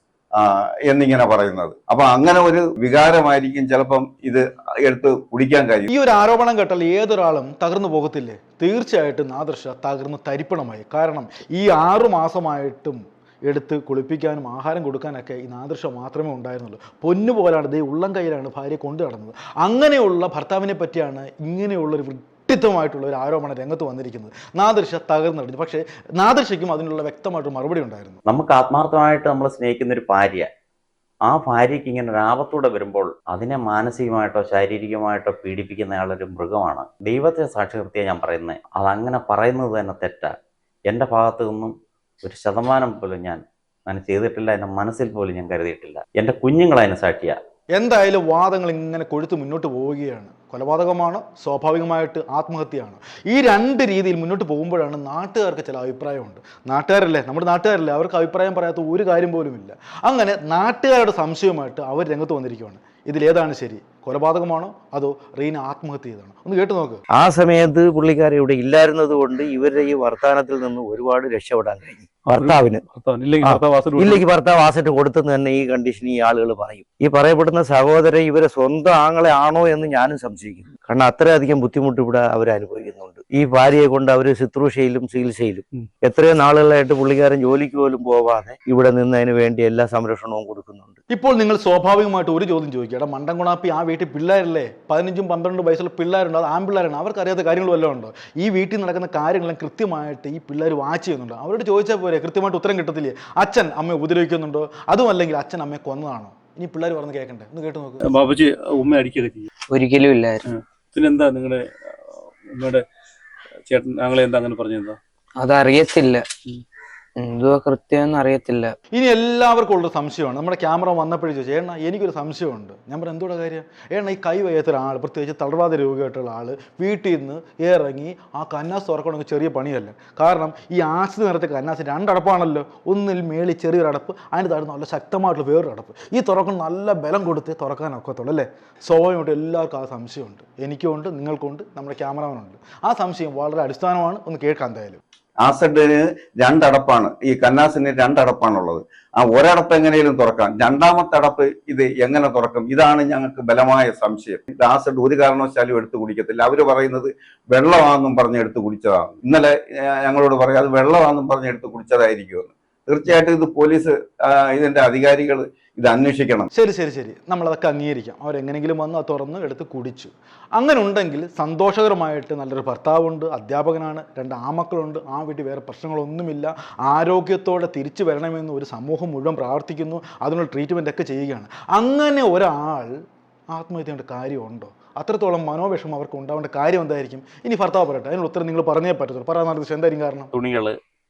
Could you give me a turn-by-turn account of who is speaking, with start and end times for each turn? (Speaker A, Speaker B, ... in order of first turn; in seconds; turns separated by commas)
Speaker A: 0.4-5.9, Speaker B: 5.9-28.2, Speaker C: 28.3-30.5, Speaker C: 31.3-40.3, Speaker C: 40.9-47.4, Speaker B: 47.8-67.0, Speaker D: 67.1-72.8, Speaker E: 72.3-74.2, Speaker D: 73.4-91.0, Speaker B: 91.1-108.0, Speaker E: 108.0-109.5, Speaker F: 109.7-110.4, Speaker E: 110.5-112.0, Speaker E: 112.5-112.8, Speaker E: 113.7-115.0, Speaker F: 115.4-116.3, Speaker F: 117.2-118.7, Speaker B: 118.9-145.0, Speaker A: 145.4-159.5, Speaker A: 160.0-166.5, Speaker B: 166.5-183.0, Speaker B: 183.5-190.3, Speaker C: 190.3-190.7